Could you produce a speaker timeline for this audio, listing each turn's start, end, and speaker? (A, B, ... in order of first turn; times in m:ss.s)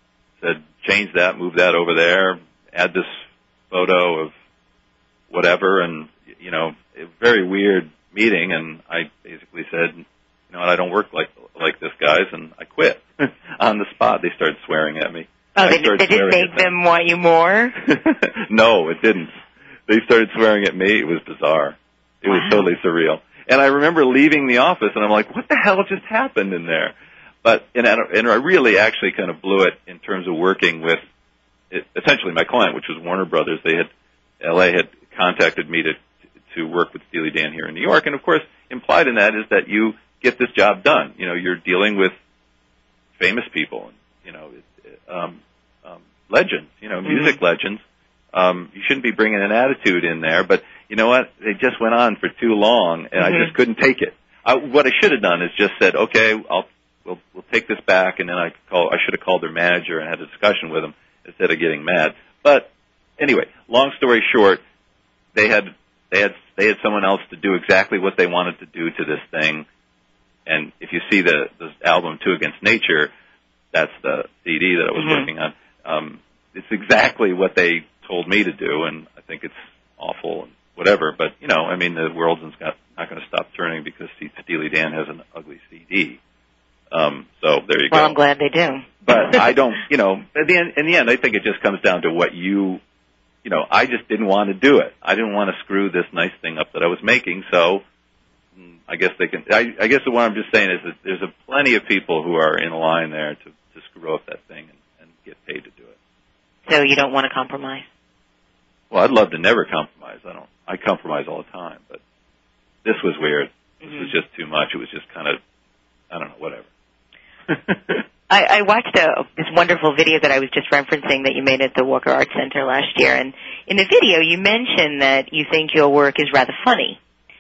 0:00.4-0:04.3 A
0:05.3-0:16.7 A
0:15.6-0:17.8 B
0:17.9-0:31.0 A
0:22.3-0:22.7 B
0:31.7-0:33.9 A
0:34.4-0:36.0 A
0:36.5-0:42.1 A
0:43.2-0:47.8 A
0:47.1-0:47.4 B
0:48.3-1:04.6 A
0:53.2-0:53.5 B
1:05.4-1:09.7 A
1:10.5-1:13.1 A
1:13.7-1:26.2 A
1:15.0-1:15.3 B
1:26.9-1:28.2 A
1:27.9-1:29.4 B
1:29.0-1:32.8 A
1:33.4-1:37.8 A
1:38.9-1:46.0 A
1:46.7-1:47.8 B
1:48.9-1:52.0 A
1:52.8-1:55.4 A
1:53.8-1:54.1 B
1:56.1-1:56.7 A
1:57.5-1:58.0 A
1:58.3-2:07.0 B